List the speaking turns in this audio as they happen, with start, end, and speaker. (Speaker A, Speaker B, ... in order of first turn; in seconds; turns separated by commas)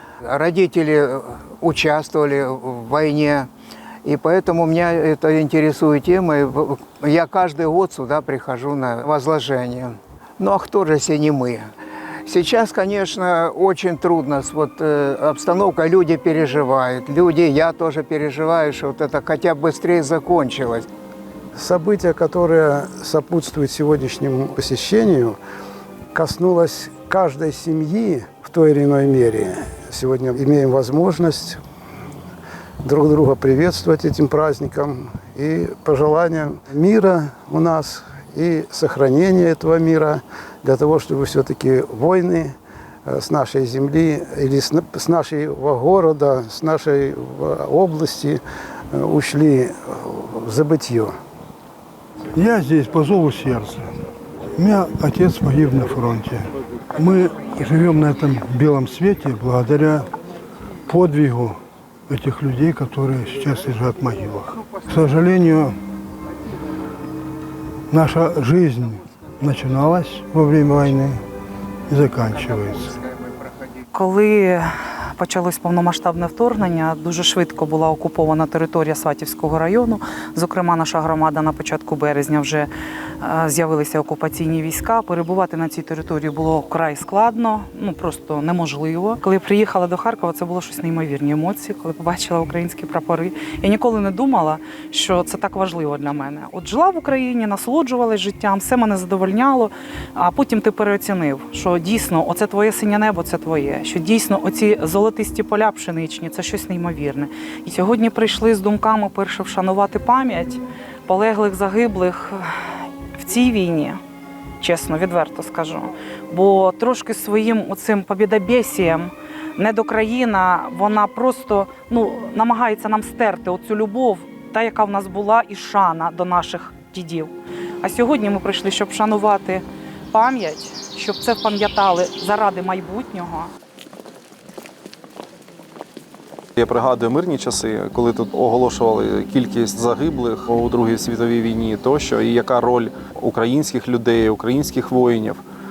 Speaker A: 0.2-3.5, Speaker A: 4.0-11.7, Speaker A: 12.2-20.9, Speaker B: 21.6-25.4, Speaker B: 26.1-31.6, Speaker B: 32.8-42.5, Speaker B: 43.1-51.1, Speaker C: 52.3-53.9, Speaker C: 54.6-60.1, Speaker C: 60.9-65.8, Speaker C: 67.9-71.2, Speaker C: 71.9-73.0, Speaker A: 72.3-73.8, Speaker D: 73.9-112.6, Speaker D: 113.1-114.0, Speaker D: 114.6-133.5, Speaker E: 136.6-145.4